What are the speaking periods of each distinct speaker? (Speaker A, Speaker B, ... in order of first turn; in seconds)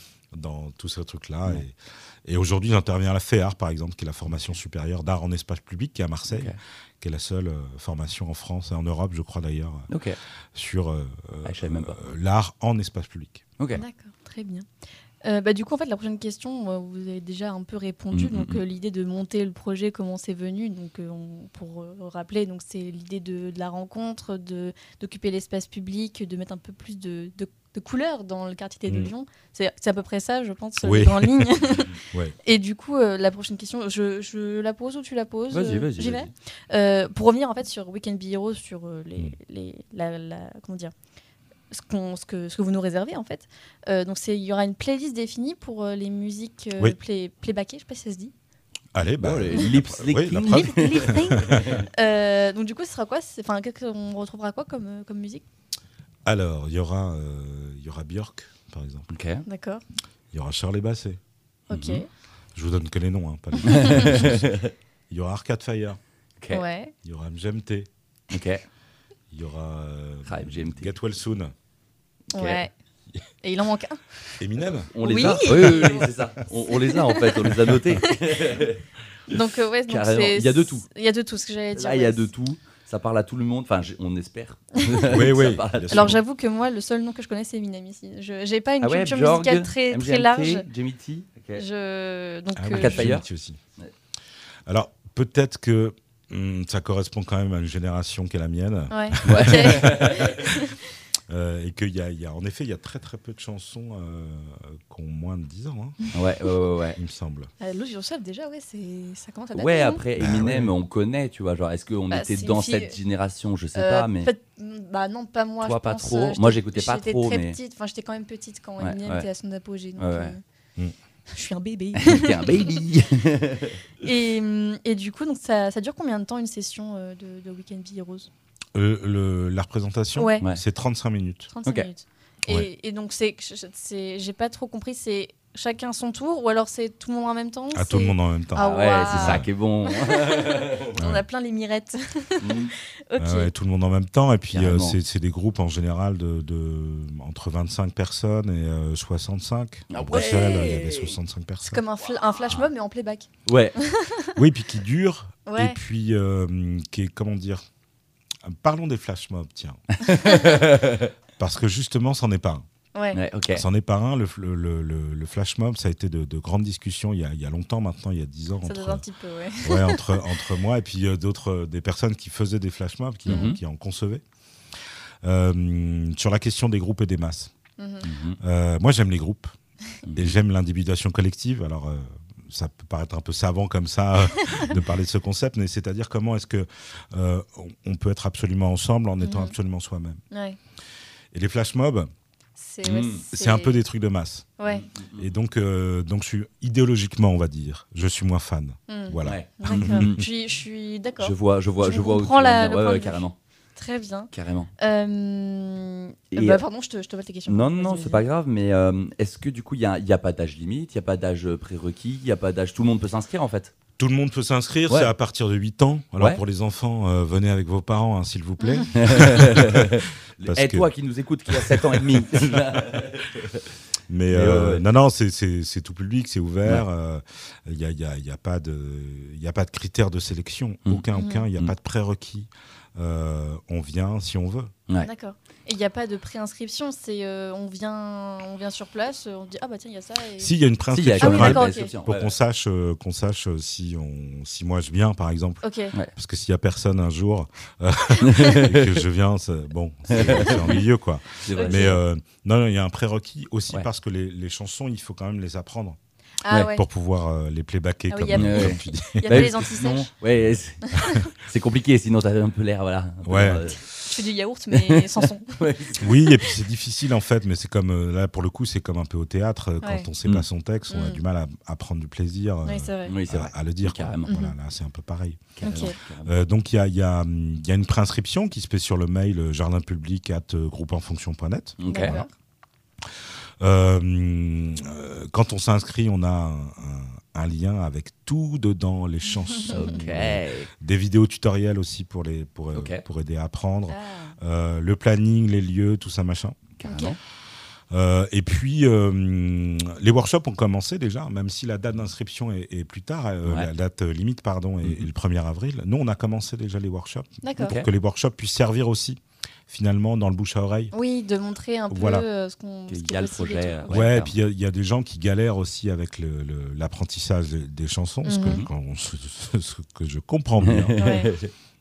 Speaker A: 0.3-9.9, 10.5-13.4, 30.8-31.5, 32.1-32.3, 48.9-51.8, 56.2-59.1, 60.3-61.2, 62.5-64.5, 65.1-66.0, 67.0-67.9, 69.3-71.5, 74.4-76.1, 85.0-86.2, 92.5-93.6, 94.7-100.4, 101.3-106.0, 106.9-107.5, 110.2-110.7, 128.7-131.5, 137.7-139.5, 140.9-141.2, 143.2-151.8, 154.4-157.6, 158.4-159.8, 161.4-162.6, 163.5-169.0, 169.6-174.2, 175.2-177.5, 178.4-179.5, 180.1-190.2, 191.3-192.1, 193.3-194.6, 195.2-200.2, 214.0-220.9, 221.5-223.0, 224.1-234.7, 240.4-256.0, 256.7-259.7, 263.2-263.7, 266.0-275.7, 276.2-282.3, 283.6-296.7, 297.9-310.9, 311.9-312.2, 313.9-321.0
Speaker B: 6.3-6.5, 9.9-10.2, 11.4-12.0, 18.1-18.6, 35.5-36.3, 49.2-51.9, 59.1-59.4, 61.7-62.0, 63.6-64.7, 68.3-68.6, 70.2-70.9, 72.3-72.6, 74.9-78.8, 79.9-80.9, 81.7-86.2, 88.8-91.6, 92.8-93.2, 99.2-100.4, 106.1-107.0, 109.5-114.3, 115.6-117.6, 118.8-119.2, 120.0-120.3, 122.0-123.8, 138.6-140.9, 142.4-142.7, 144.5-144.9, 149.9-151.2, 152.4-152.7, 153.4-153.8, 160.0-161.1, 163.1-163.6, 173.3-173.6, 178.0-178.4, 180.1-180.3, 192.8-193.2, 194.7-195.2, 199.2-200.2, 201.2-203.3, 204.3-204.7, 206.3-206.6, 207.5-213.7, 218.9-223.6, 224.3-224.8, 240.9-242.3, 248.3-248.9, 250.1-250.8, 251.4-251.9, 258.3-263.8, 264.7-266.1, 273.1-274.3, 275.5-276.4, 281.8-282.2, 289.7-290.7, 292.7-293.0, 296.8-297.2, 307.6-307.9, 312.9-314.3, 320.6-321.5
Speaker C: 13.7-14.7, 15.2-31.9, 32.4-40.9, 41.7-48.3, 50.4-55.4, 59.5-59.8, 61.7-62.1, 66.5-66.9, 72.3-72.7, 73.4-74.0, 75.0-76.0, 76.7-77.2, 79.3-82.3, 85.9-90.6, 91.5-93.1, 98.9-100.7, 107.6-110.0, 112.1-113.0, 113.8-120.4, 121.3-122.8, 124.0-128.3, 130.2-130.4, 131.5-140.2, 141.0-142.4, 143.1-143.5, 150.1-150.8, 151.6-153.3, 153.8-154.3, 155.4-155.8, 168.6-170.0, 173.3-173.6, 177.8-178.1, 189.2-189.5, 190.3-190.6, 192.6-193.8, 194.6-194.8, 198.9-208.2, 218.6-218.9, 231.1-231.5, 235.0-240.5, 241.2-241.9, 245.6-245.9, 251.6-251.9, 256.4-256.8, 258.1-260.1, 263.9-265.6, 269.8-270.1, 270.9-271.2, 272.6-273.1, 274.3-274.5, 275.6-275.9, 281.9-282.3, 293.9-294.4, 296.9-297.1, 307.4-307.7, 310.9-314.0, 318.2-318.6, 321.0-321.3